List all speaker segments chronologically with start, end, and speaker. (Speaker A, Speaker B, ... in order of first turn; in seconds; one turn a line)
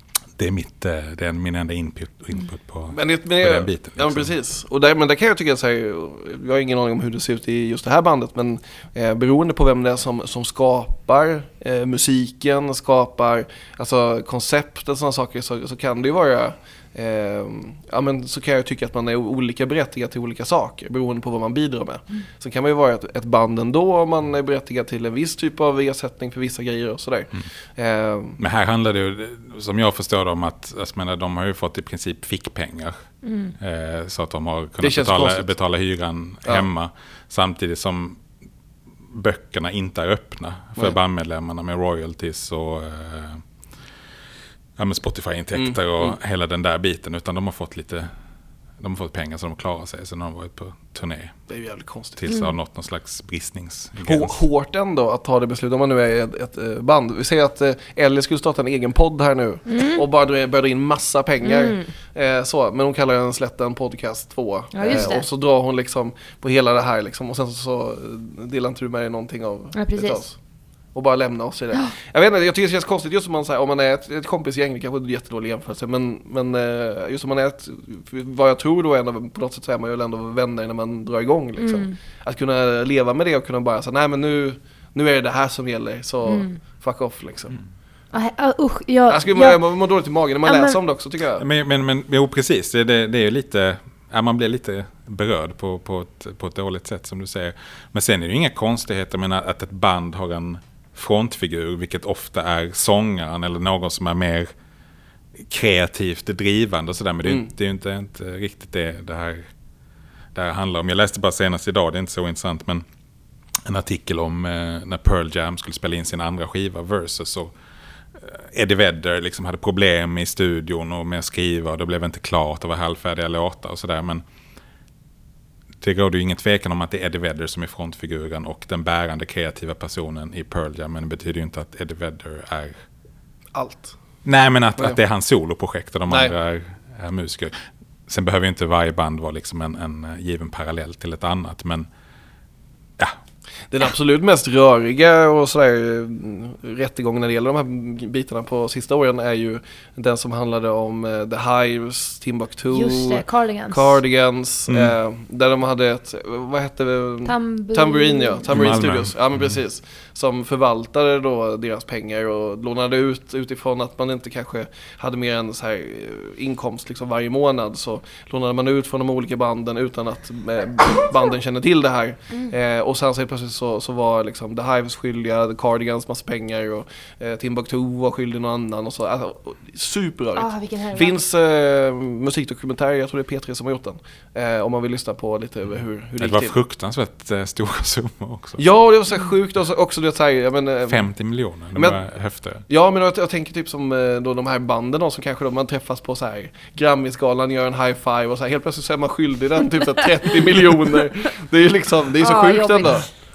Speaker A: 0.4-4.3
Speaker B: 2.9-28.4
Speaker A: 28.4-33.0
Speaker C: 33.2-33.5
Speaker A: 33.6-38.2
Speaker B: 34.8-35.5
Speaker A: 39.1-43.4
Speaker A: 44.8-48.1
Speaker B: 45.5-46.2
Speaker A: 48.8-51.4
Speaker B: 51.5-52.3
Speaker A: 52.2-54.4
Speaker B: 54.0-70.4
Speaker C: 59.7-60.0
Speaker C: 61.4-61.9
Speaker C: 64.7-65.2
Speaker C: 69.7-70.2
Speaker B: 71.0-87.6
Speaker C: 81.6-81.9
Speaker C: 86.3-86.6
Speaker C: 88.1-89.6
Speaker B: 89.1-91.5
Speaker C: 90.5-90.8
Speaker A: 91.4-104.5
Speaker A: 105.4-109.5
Speaker A: 110.3-112.8
Speaker A: 113.7-117.5
Speaker A: 118.2-124.2
Speaker A: 125.8-132.8
Speaker B: 133.5-134.0
Speaker A: 134.2-137.6
Speaker B: 136.1-136.3
Speaker A: 138.1-141.9
Speaker B: 143.7-186.6
Speaker C: 152.7-154.0
Speaker A: 154.7-154.9
Speaker C: 157.2-158.4
Speaker A: 158.5-159.1
Speaker C: 180.4-181.2
Speaker A: 186.2-188.6
Speaker B: 188.6-191.1
Speaker A: 190.9-192.6
Speaker B: 191.8-192.0
Speaker B: 192.7-203.1
Speaker C: 202.2-203.1